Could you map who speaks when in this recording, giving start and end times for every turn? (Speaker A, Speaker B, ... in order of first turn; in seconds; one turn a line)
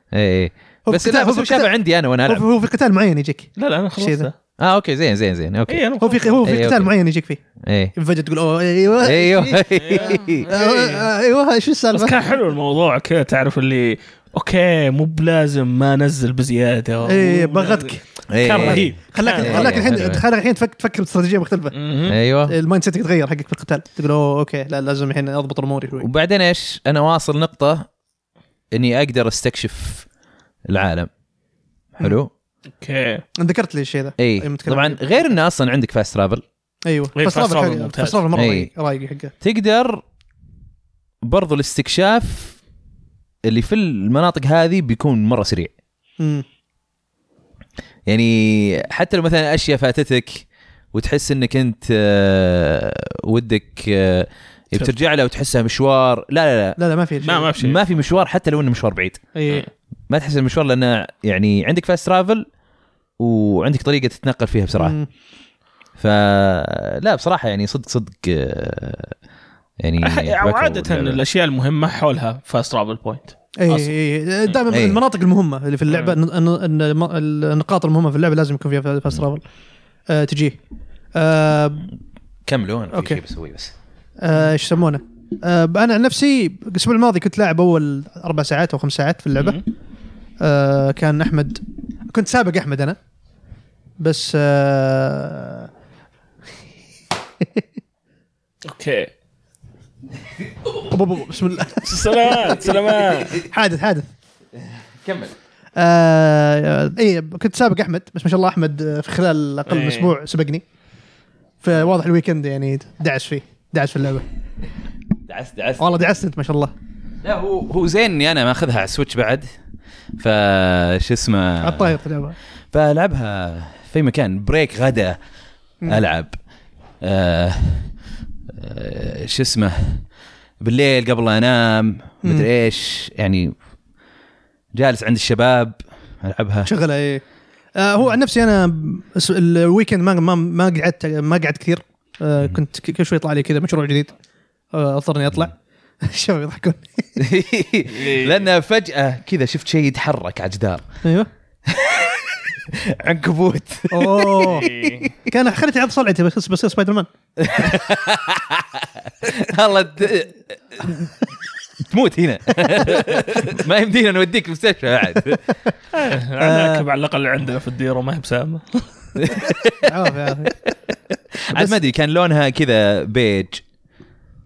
Speaker A: 0.1-2.4
Speaker B: 0.8-4.3
Speaker C: 3.6-4.3
Speaker A: 4.6-5.8
Speaker C: 5.7-6.4
Speaker B: 6.0-7.4
Speaker A: 6.4-6.9
Speaker A: 7.6-7.9
Speaker B: 7.9-12.2
Speaker A: 9.0-10.5
Speaker C: 9.8-11.1
Speaker C: 11.9-19.8
Speaker B: 17.0-21.8
Speaker A: 18.3-20.2
Speaker C: 21.7-22.2
Speaker A: 22.1-22.5
Speaker B: 22.4-26.1
Speaker A: 26.0-27.9
Speaker A: 28.7-30.1
Speaker A: 30.7-31.1
Speaker A: 31.9-32.3
Speaker C: 32.8-33.2
Speaker B: 33.4-35.3
Speaker A: 34.2-36.4
Speaker B: 36.9-39.3
Speaker C: 37.1-38.2
Speaker A: 38.3-38.7
Speaker A: 39.4-40.0
Speaker A: 41.2-42.6
Speaker A: 43.4-45.7
Speaker B: 46.2-46.4
Speaker A: 48.1-56.8
Speaker B: 56.8-57.5
Speaker C: 57.2-57.8
Speaker A: 57.6-59.2
Speaker B: 59.3-59.7
Speaker A: 60.1-62.5
Speaker A: 63.2-65.0
Speaker B: 64.8-65.1
Speaker A: 66.0-69.2
Speaker A: 69.8-71.2
Speaker C: 70.0-73.8
Speaker B: 73.6-79.4
Speaker A: 74.7-75.0
Speaker C: 75.9-76.2
Speaker B: 80.1-80.6
Speaker B: 81.1-81.9
Speaker A: 82.5-83.7
Speaker B: 82.9-83.2
Speaker B: 84.2-89.6
Speaker C: 89.3-89.6
Speaker B: 90.4-93.0
Speaker B: 94.0-95.7
Speaker C: 98.7-99.1
Speaker B: 100.9-102.7
Speaker C: 101.8-103.4
Speaker B: 103.4-104.1
Speaker A: 104.6-105.3
Speaker B: 105.8-110.6
Speaker C: 109.7-110.1
Speaker B: 111.6-114.2
Speaker A: 115.3-115.9
Speaker B: 115.8-116.7
Speaker A: 117.2-119.5
Speaker A: 120.2-122.0
Speaker B: 121.6-122.4
Speaker A: 122.7-125.2
Speaker A: 125.8-126.3
Speaker A: 127.0-127.9
Speaker A: 128.5-130.1
Speaker A: 130.6-133.5
Speaker A: 134.7-136.7
Speaker B: 136.6-137.2
Speaker B: 137.8-144.1
Speaker B: 144.7-147.1
Speaker A: 147.2-150.8
Speaker C: 147.9-148.4
Speaker B: 151.0-151.3
Speaker A: 151.7-155.1
Speaker B: 153.9-154.7
Speaker C: 154.5-155.1
Speaker B: 155.2-157.1
Speaker A: 157.4-161.3
Speaker A: 161.8-165.4
Speaker C: 165.9-169.5
Speaker B: 166.4-166.8
Speaker A: 169.2-169.9
Speaker B: 169.8-170.6
Speaker A: 171.3-173.6